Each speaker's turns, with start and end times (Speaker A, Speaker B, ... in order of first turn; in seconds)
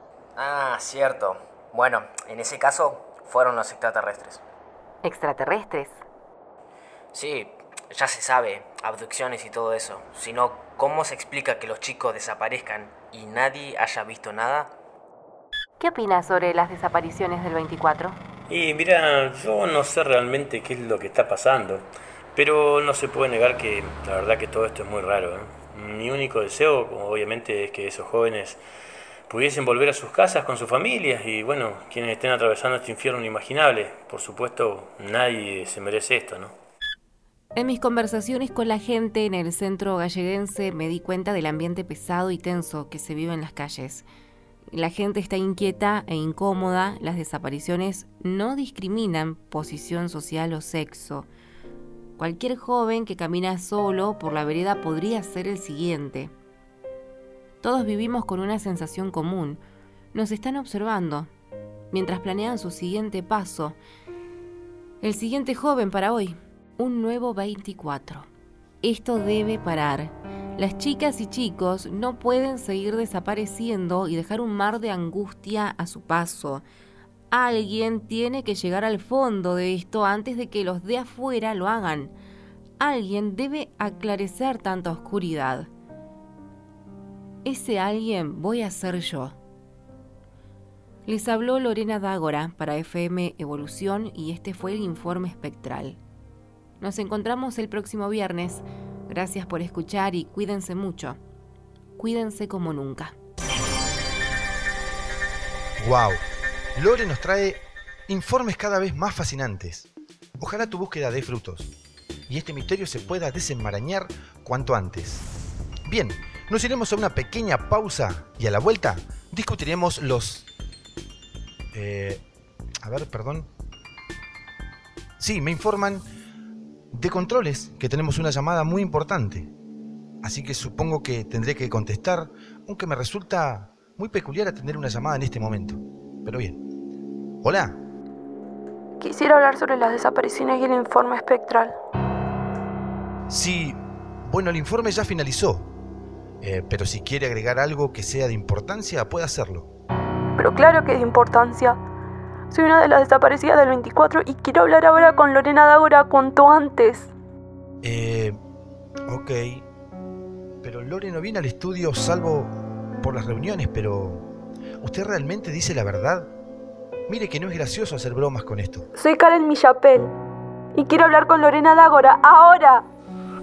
Speaker A: 0.4-4.4, 7.1-14.7
Speaker B: 5.0-6.0, 15.8-18.2, 37.5-44.1, 44.7-51.3, 52.2-56.3, 57.6-59.6, 60.1-61.3, 61.9-63.8, 65.0-68.3, 68.8-76.6, 77.3-82.1, 82.8-85.7, 87.4-89.4, 91.1-96.0, 96.8-101.2, 102.0-103.2
Speaker C: 18.5-28.6, 29.3-36.5
Speaker D: 105.8-111.7, 112.3-115.3, 115.9-120.5, 121.7-122.2, 122.8-123.5, 125.2-126.1, 126.9-129.5, 130.2-136.6, 137.4-137.8, 143.3-145.7, 146.4-149.7, 157.8-158.4, 159.1-159.7, 160.6-164.3, 164.8-166.3, 167.1-168.9
Speaker E: 139.0-141.8, 150.4-151.8, 152.5-157.1, 169.0-170.1, 170.8-172.8